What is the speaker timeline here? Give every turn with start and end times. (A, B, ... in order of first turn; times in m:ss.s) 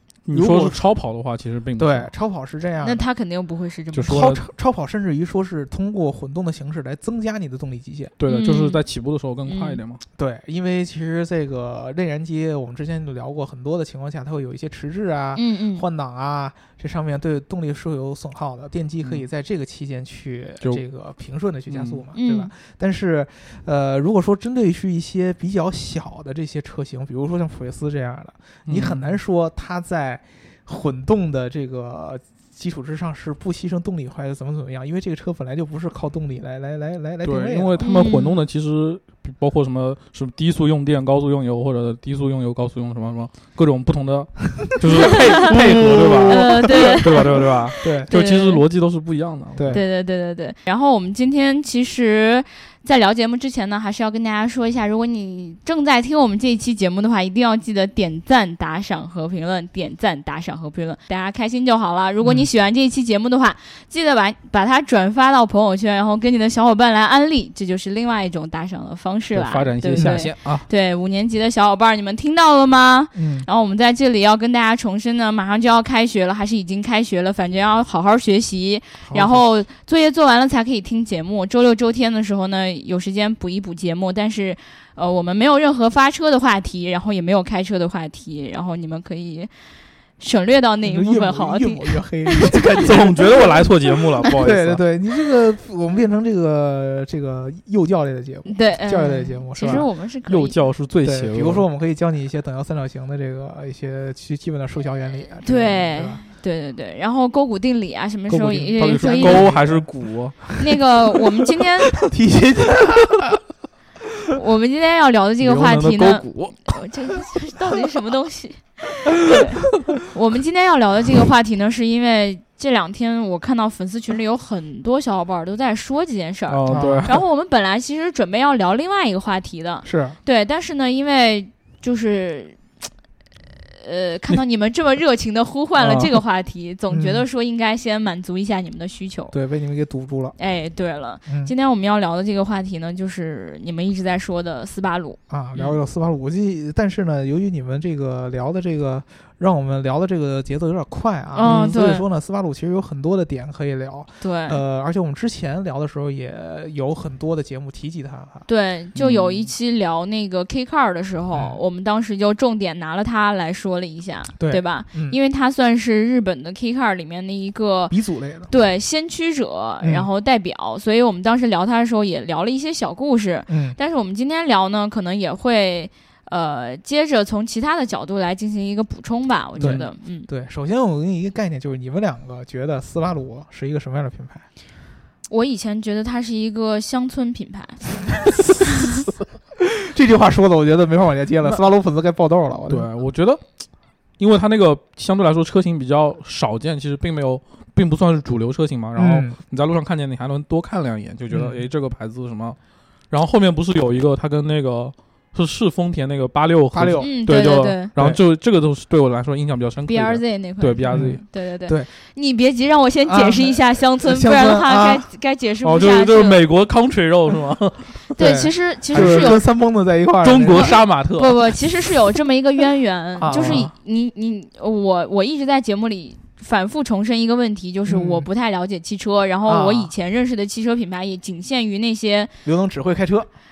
0:00.2-0:02.1 A
0:00.3-0:00.8 B
0:01.8-0:03.0 B
0:02.8-0:04.2 C
0:03.9-0:04.4 A
0:04.1-0:08.1 B
0:08.2-0:10.0 A
0:08.3-0:08.8 C
0:09.5-0:09.8 C
0:10.2-0:37.8 B
0:15.4-0:15.8 C
0:21.7-0:22.0 A
0:22.1-0:22.5 C
0:28.7-0:29.2 A
0:37.2-0:49.8 A
0:37.8-0:38.4 C
0:44.9-0:48.1 B
0:45.0-0:45.6 C
0:46.2-0:47.5 C
0:48.1-0:48.6 C
0:49.6-0:49.8 B
0:49.7-1:29.5 C
1:02.2-1:02.5 B
1:09.3-1:10.7 A
1:10.0-1:10.3 B
1:13.1-1:13.5 B
1:19.1-1:19.4 B
1:30.2-1:33.1 C
1:30.8-1:39.9 B
1:32.8-1:34.8 A
1:38.4-1:40.6 C
1:39.7-1:41.6 A
1:41.0-1:46.2 B
1:45.4-1:49.5 C
1:48.3-1:50.4 A
1:48.5-1:49.9 B
1:50.6-1:52.0 C
1:51.9-1:53.4 B
1:54.3-2:12.6 C
1:55.4-1:56.7 A
2:06.5-2:07.2 A
2:06.7-2:07.2 B
2:09.8-2:10.2 B
2:13.8-2:19.3 C
2:15.8-2:16.1 A
2:16.9-2:17.2 B
2:19.3-2:20.4 B
2:20.4-2:25.7 C
2:21.3-2:21.5 B
2:25.3-2:38.4 B
2:31.3-2:32.0 C
2:31.4-2:31.8 A
2:34.2-2:34.6 C
2:38.4-2:47.9 C
2:39.0-2:39.5 A
2:44.4-2:45.2 B
2:47.9-2:48.5 B
2:48.5-3:00.3 C
2:49.8-2:50.1 B
2:53.5-2:53.8 B
2:59.6-2:59.8 A
2:59.6-3:04.4 B
3:05.3-3:08.8 C
3:09.6-3:12.9 B
3:12.7-3:13.4 A
3:14.2-3:22.6 A
3:19.0-3:19.4 B
3:21.3-3:21.6 B
3:23.1-3:31.2 A
3:26.7-3:27.3 B
3:27.0-3:27.9 C
3:29.9-3:36.4 C
3:30.9-3:31.9 B
3:33.1-3:35.0 B
3:35.6-3:38.0 A
3:38.2-3:39.4 C
3:38.2-3:40.8 B
3:38.9-3:39.4 A
3:40.2-3:41.4 A
3:40.6-3:52.3 C
3:43.2-3:43.7 B
3:43.3-3:43.7 A
3:47.9-3:48.3 B
3:49.4-3:49.9 B
3:52.4-3:53.3 B